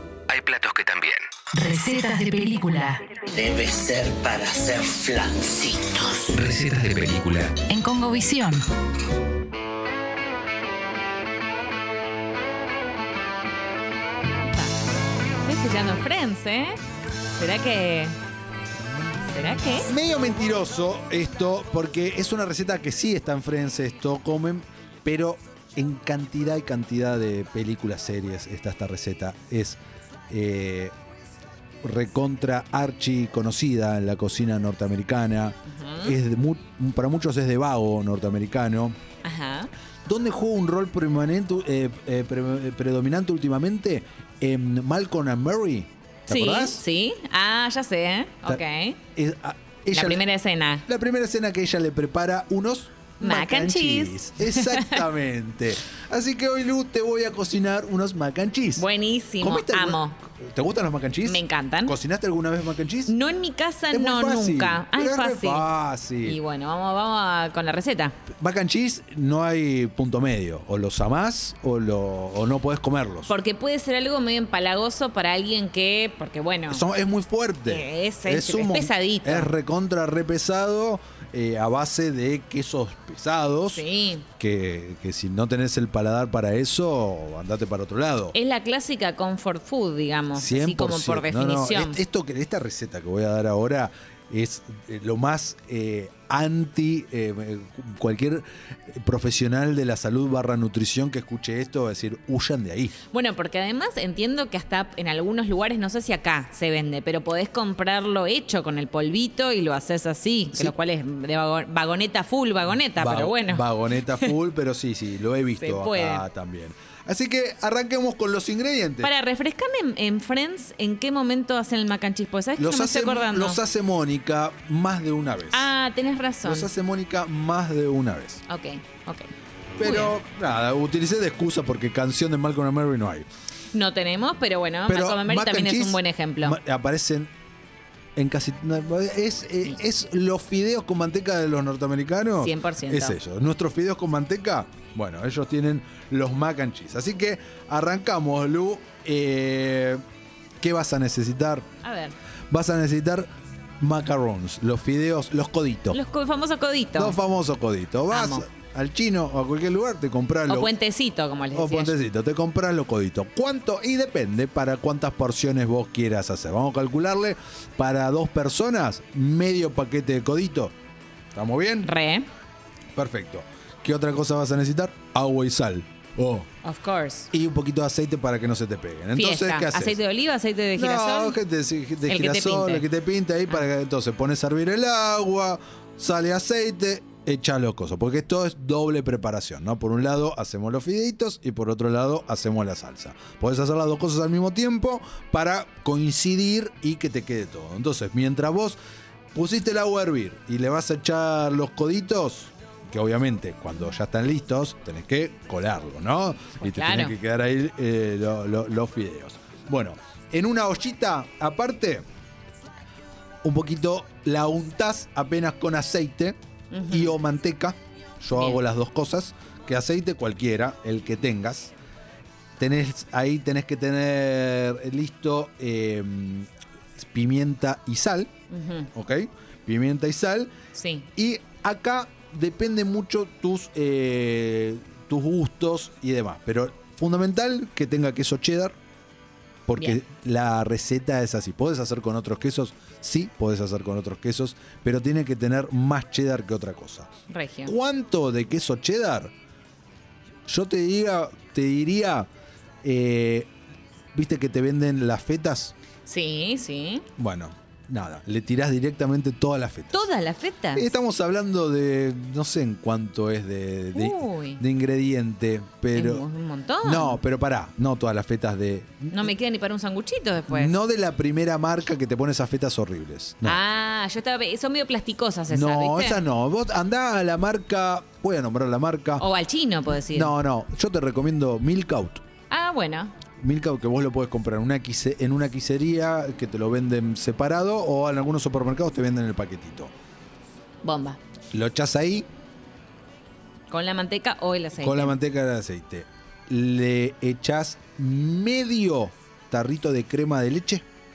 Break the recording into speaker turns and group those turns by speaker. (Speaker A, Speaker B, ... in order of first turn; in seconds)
Speaker A: 0.3-1.3, 6.3-7.6
Speaker B: 1.5-3.0, 7.6-8.6
Speaker C: 3.3-6.4
Speaker D: 14.5-14.7, 15.4-16.8, 17.4-18.1, 19.3-19.9, 35.7-36.2, 39.2-39.7, 46.3-49.0, 49.9-50.8, 53.2-55.1, 58.8-60.2, 61.2-62.0, 63.1-65.7, 66.2-68.2, 73.3-76.8, 77.7-79.5, 83.7-84.2, 88.3-92.0, 103.1-114.3, 115.6-116.2, 119.0-123.6, 125.5-126.7, 128.5-129.3, 129.8-130.2, 133.7-136.6, 142.4-143.2, 151.8-152.1, 155.9-157.2, 158.1-158.4, 160.5-161.9, 171.8-172.3, 176.6-177.3, 179.1-181.4, 182.1-182.8, 206.6-207.2, 216.7-217.2, 218.3-218.6, 228.5-228.9, 230.7-231.1, 247.3-247.8, 256.0-257.1, 259.9-260.9, 263.9-264.6, 265.9-267.2, 269.1-270.8, 273.4-276.2, 279.2-280.3, 282.5-283.1, 290.8-291.2, 293.7-295.2
Speaker E: 19.9-29.8, 30.3-30.9, 31.8-39.0, 40.0-46.8, 49.1-50.2, 50.9-58.9, 59.4-63.1, 63.9-66.4, 68.4-73.3, 76.7-83.9, 84.4-88.3, 90.3-103.0, 113.0-119.1, 122.6-125.7, 126.4-128.4, 129.8-133.3, 134.9-137.3, 138.2-150.0, 150.6-151.7, 152.5-153.3, 153.8-156.0, 156.9-160.7, 161.5-170.7, 171.3-171.9, 172.9-176.5, 177.3-180.0, 180.8-198.8, 199.3-212.0, 213.4-216.4, 216.9-221.7, 222.6-228.3, 228.9-230.5, 231.2-238.8, 239.7-247.1, 247.7-249.3, 250.5-252.3, 252.8-253.5, 254.1-255.7, 257.2-260.1, 260.7-266.2, 266.8-269.2, 270.5-273.6, 275.5-279.2, 280.1-282.2, 283.4-289.9, 291.5-292.2, 294.8-300.8